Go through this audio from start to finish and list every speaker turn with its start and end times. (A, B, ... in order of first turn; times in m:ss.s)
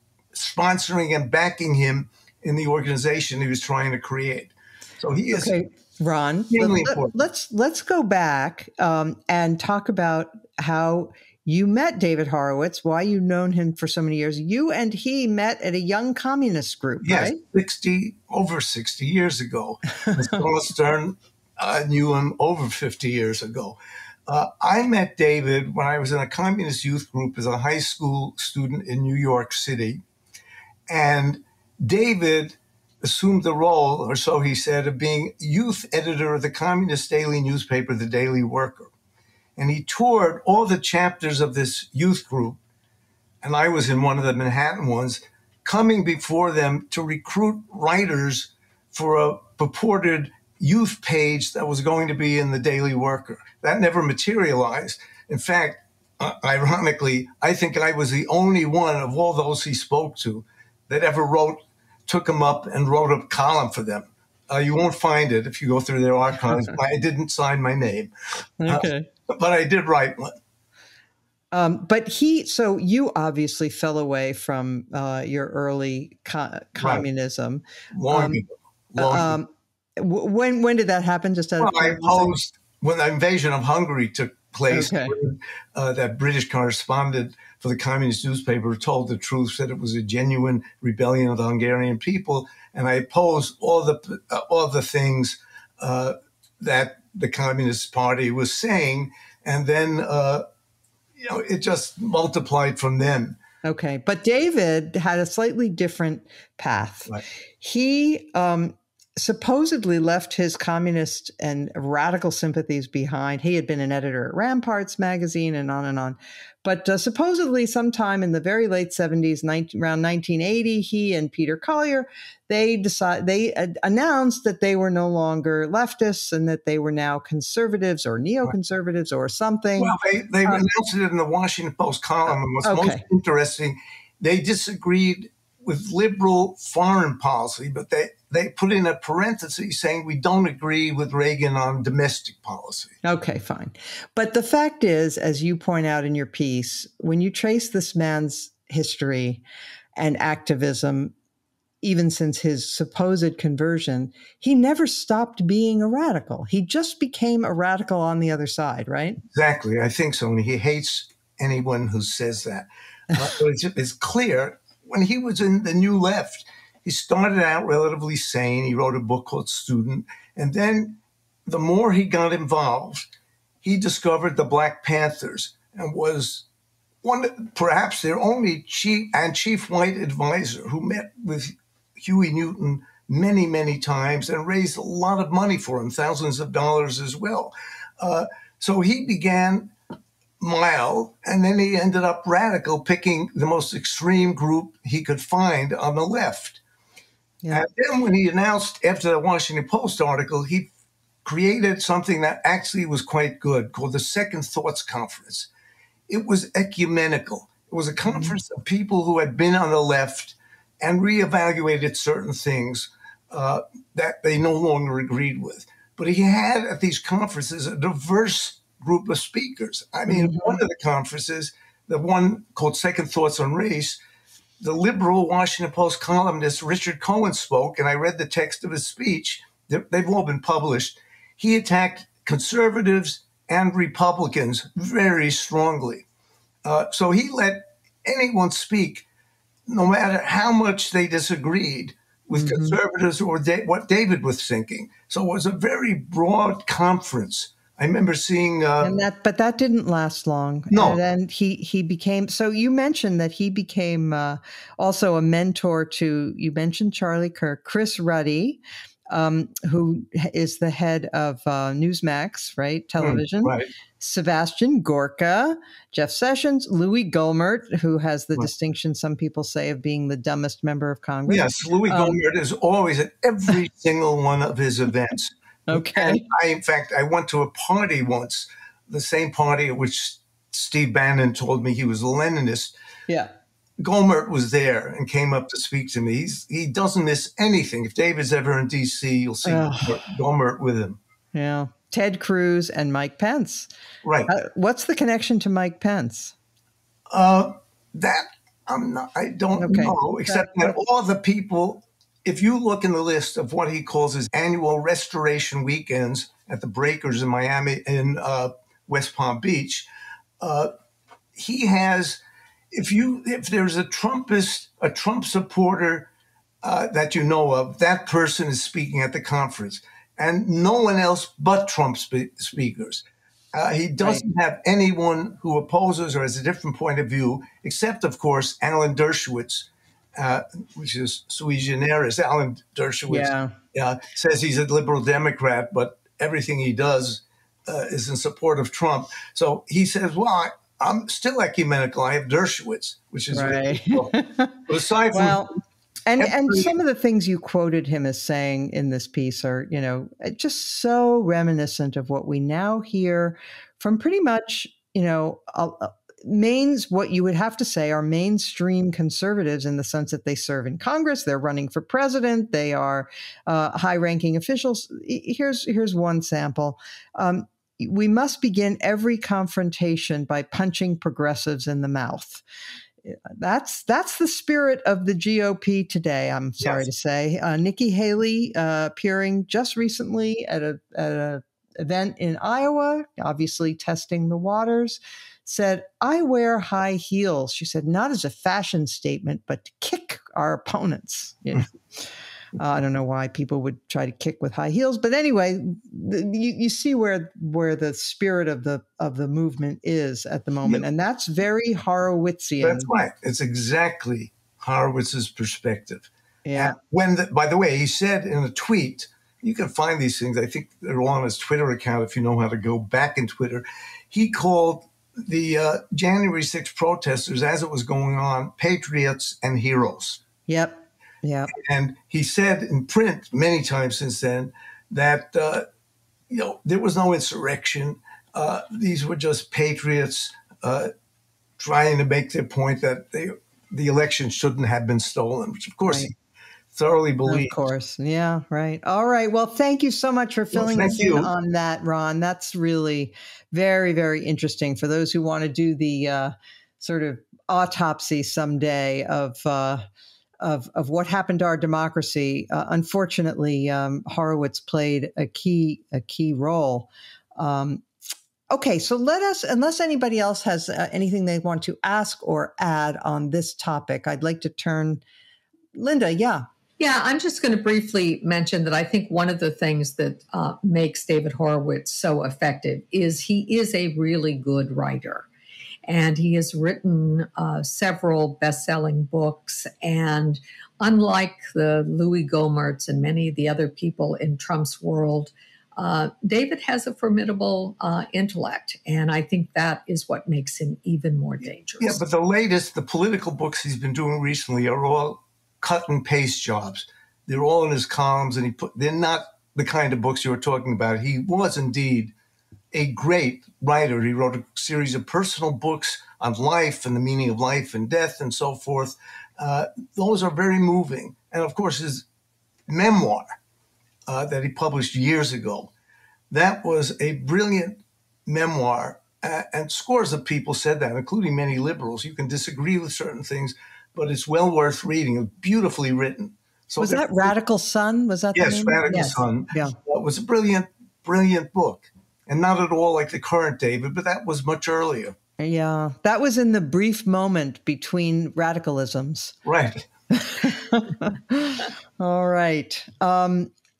0:00.3-0:05.5 A
0:05.3-0:17.4 B
0:06.5-0:07.1 A
0:17.0-0:30.0 A
0:30.9-0:38.9 A
0:39.6-0:42.6 A
0:43.4-1:08.1 A
1:08.6-1:09.1 B
1:08.6-1:10.3 A
1:11.5-1:18.4 B
1:17.9-1:19.4 A
1:19.0-1:22.3 B
1:21.6-1:40.4 A
1:24.7-1:25.1 B
1:41.2-1:43.4 A
1:43.6-2:10.6 B
2:09.8-2:22.9 A
2:12.6-2:13.0 B
2:23.0-2:29.4 B
2:30.0-2:31.1 B
2:31.8-2:39.2 B
2:39.3-2:53.1 A
2:53.6-2:56.4 A
2:57.0-3:09.7 A
3:10.4-3:16.6 A
3:17.5-3:20.7 A
3:21.2-3:25.5 A
3:26.1-3:44.0 A
3:28.1-3:28.3 B
3:40.1-3:40.6 B
3:44.6-3:56.0 A
3:56.6-3:59.0 A
3:59.7-4:08.9 A
4:02.3-4:02.8 B
4:08.8-4:32.2 B
4:10.7-4:11.0 A
4:23.0-4:23.7 A
4:31.3-4:42.7 A
4:35.7-4:36.2 B
4:43.8-4:51.0 A
4:49.4-4:50.0 B
4:51.3-4:53.7 B
4:54.0-4:54.3 A
4:54.3-4:56.3 B
4:57.1-5:09.8 A
4:59.6-5:00.7 B
5:10.4-5:10.7 A
5:11.4-5:12.2 A
5:12.7-5:16.1 A
5:16.6-5:44.1 A
5:24.0-5:24.2 B
5:33.1-5:33.5 B
5:43.3-5:44.6 B
5:44.7-5:45.4 A
5:45.1-5:45.5 B
5:46.0-6:12.4 B
5:46.2-5:46.7 A
6:13.0-6:32.0 B
6:32.6-6:42.9 B
6:42.6-7:00.2 A
6:46.4-6:46.8 B
7:00.5-7:01.5 B
7:01.6-7:05.6 A
7:06.3-7:10.9 A
7:11.6-7:16.1 A
7:16.7-7:17.6 A
7:17.2-7:29.8 B
7:20.5-7:21.3 A
7:30.4-7:37.9 B
7:38.5-7:45.0 B
7:45.7-7:46.4 B
7:46.8-7:55.3 C
7:55.8-8:12.0 C
8:11.8-8:22.1 A
8:22.7-8:32.0 A
8:32.7-8:33.3 A
8:34.1-8:35.7 A
8:36.3-8:47.3 A
8:46.8-8:49.8 B
8:48.3-8:55.2 A
8:48.9-8:49.2 C
8:55.4-8:59.4 B
8:59.4-8:59.8 A
9:00.1-9:03.5 B